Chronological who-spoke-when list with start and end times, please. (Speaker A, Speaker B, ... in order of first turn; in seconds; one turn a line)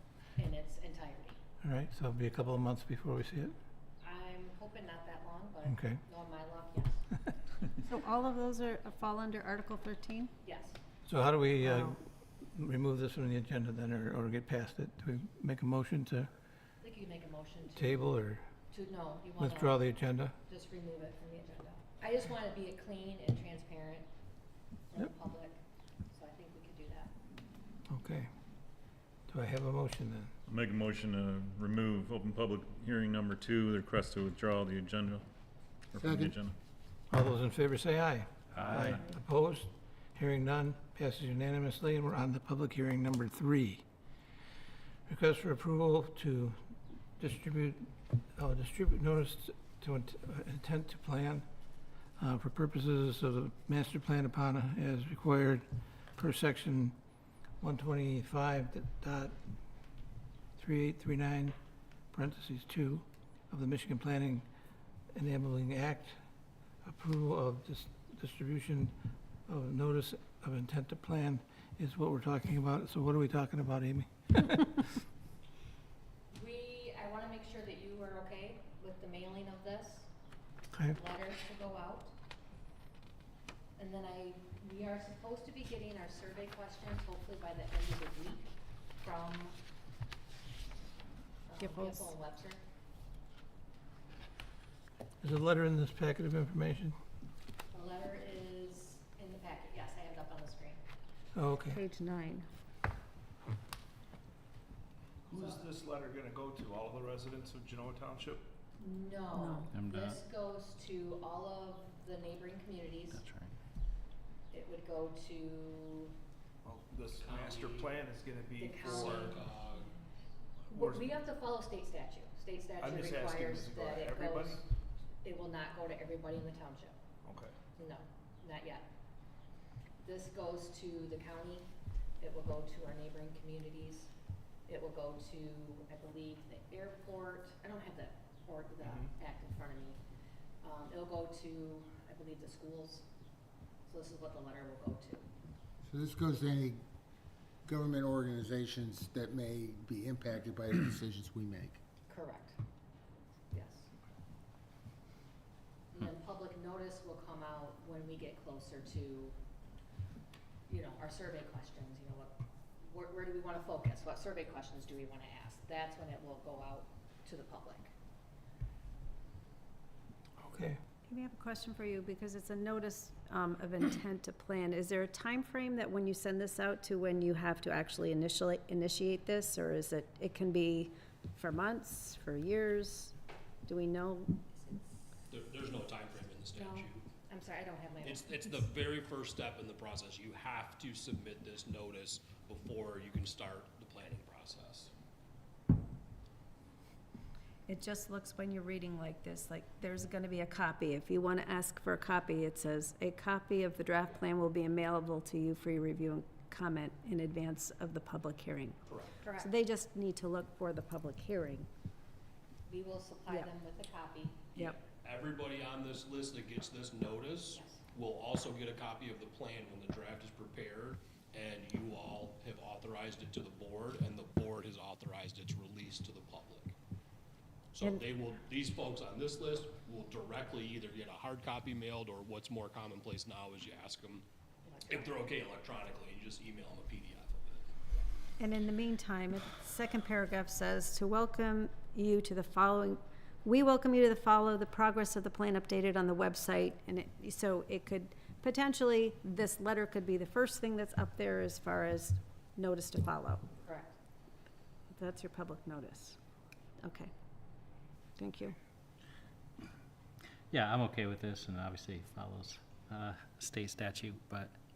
Speaker A: 0.4-1.4
Speaker B: 1.6-3.5
Speaker A: 4.0-7.0
Speaker B: 5.6-6.0
Speaker C: 7.9-10.3
Speaker A: 10.4-10.8
Speaker B: 11.1-12.0
Speaker B: 12.5-16.3
Speaker A: 16.8-18.0
Speaker B: 17.8-18.4
Speaker A: 18.7-19.8
Speaker B: 19.4-20.3
Speaker A: 20.5-24.1
Speaker A: 24.9-25.6
Speaker A: 26.1-27.1
Speaker B: 27.9-28.3
Speaker B: 29.3-30.3
Speaker D: 30.5-35.2
Speaker D: 35.9-36.5
Speaker B: 37.1-43.8
Speaker D: 38.6-39.0
Speaker B: 45.1-46.6
Speaker B: 47.2-51.5
Speaker B: 52.2-55.6
Speaker B: 56.2-57.0
Speaker B: 57.6-59.3
Speaker B: 60.6-61.5
Speaker B: 62.1-64.5
Speaker B: 65.1-66.2
Speaker B: 66.8-68.9
Speaker B: 69.5-75.0
Speaker A: 76.3-80.1
Speaker A: 80.9-82.1
Speaker A: 83.8-89.6
Speaker A: 91.5-92.6
Speaker C: 91.6-92.1
Speaker B: 95.2-97.0
Speaker A: 97.7-100.8
Speaker B: 101.3-101.8
Speaker C: 101.7-102.5
Speaker E: 105.3-108.5
Speaker A: 105.3-105.6
Speaker A: 108.8-113.2
Speaker C: 109.3-109.7
Speaker F: 109.7-110.2
Speaker F: 113.1-113.5
Speaker A: 114.5-116.1
Speaker E: 116.6-119.4
Speaker G: 117.2-117.9
Speaker A: 118.6-119.5
Speaker G: 119.0-119.9
Speaker E: 120.7-121.1
Speaker A: 120.7-124.6
Speaker E: 122.8-124.6
Speaker A: 125.2-126.9
Speaker E: 127.2-127.5
Speaker A: 127.8-128.8
Speaker A: 130.0-131.7
Speaker A: 132.2-134.1
Speaker A: 134.7-140.0
Speaker E: 138.8-139.1
Speaker A: 140.6-143.1
Speaker A: 143.9-145.2
Speaker H: 146.0-146.7
Speaker H: 147.7-151.6
Speaker A: 152.1-152.6
Speaker A: 153.5-153.9
Speaker A: 155.9-159.3
Speaker A: 160.7-167.9
Speaker B: 170.4-170.8
Speaker C: 171.1-183.1
Speaker C: 183.7-184.4
Speaker G: 185.3-187.1
Speaker A: 186.5-188.6
Speaker G: 188.0-194.9
Speaker C: 197.7-208.8
Speaker G: 208.8-209.2
Speaker A: 209.2-209.5
Speaker C: 209.4-211.7
Speaker A: 212.7-214.6
Speaker G: 214.5-226.7
Speaker A: 217.5-217.8
Speaker G: 227.7-234.2
Speaker A: 234.6-235.3
Speaker G: 234.9-237.7
Speaker C: 238.4-253.4
Speaker A: 253.6-253.9
Speaker C: 254.9-256.2
Speaker C: 256.8-257.1
Speaker C: 258.2-258.6
Speaker F: 260.5-264.5